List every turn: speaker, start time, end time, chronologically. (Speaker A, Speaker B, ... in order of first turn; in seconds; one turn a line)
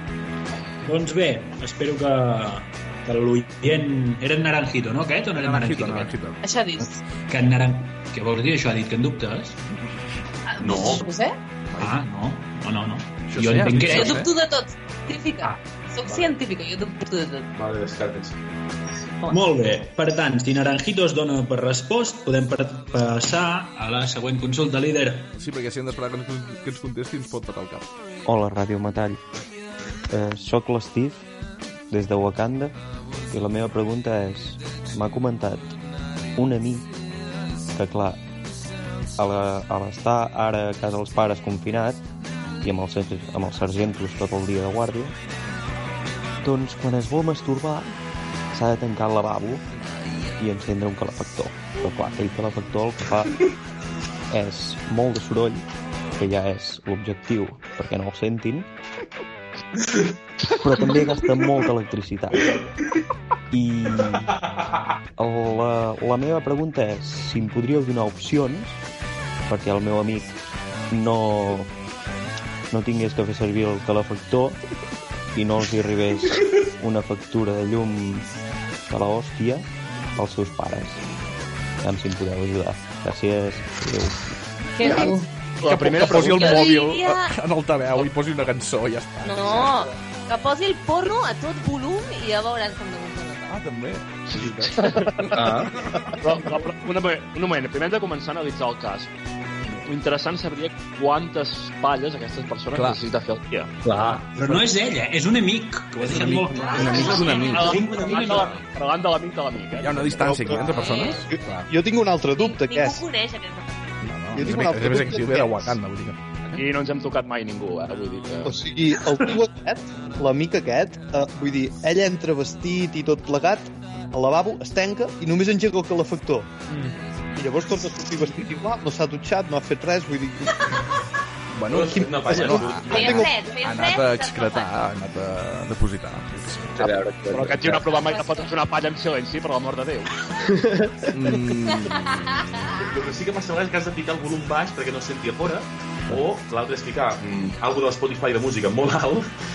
Speaker A: 0.8-6.1
Speaker B: 5.3-6.4
Speaker C: 6.4-7.0
Speaker A: 7.3-9.6
Speaker C: 10.5-11.3
Speaker D: 10.6-11.0
Speaker A: 11.8-14.2
Speaker B: 13.3-14.3
Speaker C: 13.8-17.5
Speaker D: 17.5-18.4
Speaker A: 19.3-25.3
Speaker B: 25.3-27.9
Speaker E: 28.2-29.2
Speaker E: 30.1-31.2
Speaker E: 31.9-32.8
Speaker E: 33.3-35.7
Speaker E: 36.4-36.9
Speaker E: 37.7-38.2
Speaker E: 39.1-42.0
Speaker E: 42.6-45.1
Speaker E: 46.4-47.9
Speaker E: 48.5-49.6
Speaker E: 50.4-53.4
Speaker E: 54.3-55.6
Speaker E: 56.1-58.7
Speaker D: 59.8-60.1
Speaker E: 60.5-62.6
Speaker D: 62.3-62.7
Speaker E: 63.5-64.3
Speaker D: 64.3-64.8
Speaker E: 65.2-68.8
Speaker E: 69.5-70.3
Speaker E: 70.9-71.7
Speaker E: 72.7-74.6
Speaker E: 75.3-78.3
Speaker E: 78.9-81.0
Speaker E: 81.8-84.3
Speaker C: 84.8-85.3
Speaker F: 84.8-86.7
Speaker B: 84.8-85.1
Speaker B: 85.6-89.8
Speaker C: 86.0-87.3
Speaker C: 89.2-93.5
Speaker B: 93.5-95.5
Speaker F: 94.8-95.1
Speaker G: 95.3-95.7
Speaker F: 96.2-99.1
Speaker F: 99.8-103.8
Speaker B: 102.7-103.0
Speaker G: 103.8-104.4
Speaker A: 104.3-107.6
Speaker B: 106.0-107.9
Speaker C: 106.5-108.5
Speaker D: 106.8-108.5
Speaker F: 107.5-110.6
Speaker B: 109.8-111.7
Speaker H: 110.2-113.0
Speaker C: 110.6-111.2
Speaker C: 112.4-114.0
Speaker B: 114.0-116.6
Speaker H: 114.3-115.8
Speaker F: 116.5-118.6
Speaker H: 118.4-126.6
Speaker H: 127.3-130.9
Speaker B: 131.5-137.0
Speaker D: 131.7-133.3
Speaker H: 131.9-133.2
Speaker C: 132.9-134.8
Speaker G: 136.8-137.8
Speaker F: 137.3-140.1
Speaker B: 137.5-137.8
Speaker C: 137.9-138.5
Speaker G: 140.5-141.1
Speaker B: 141.1-142.7
Speaker C: 141.7-142.7
Speaker D: 142.7-149.3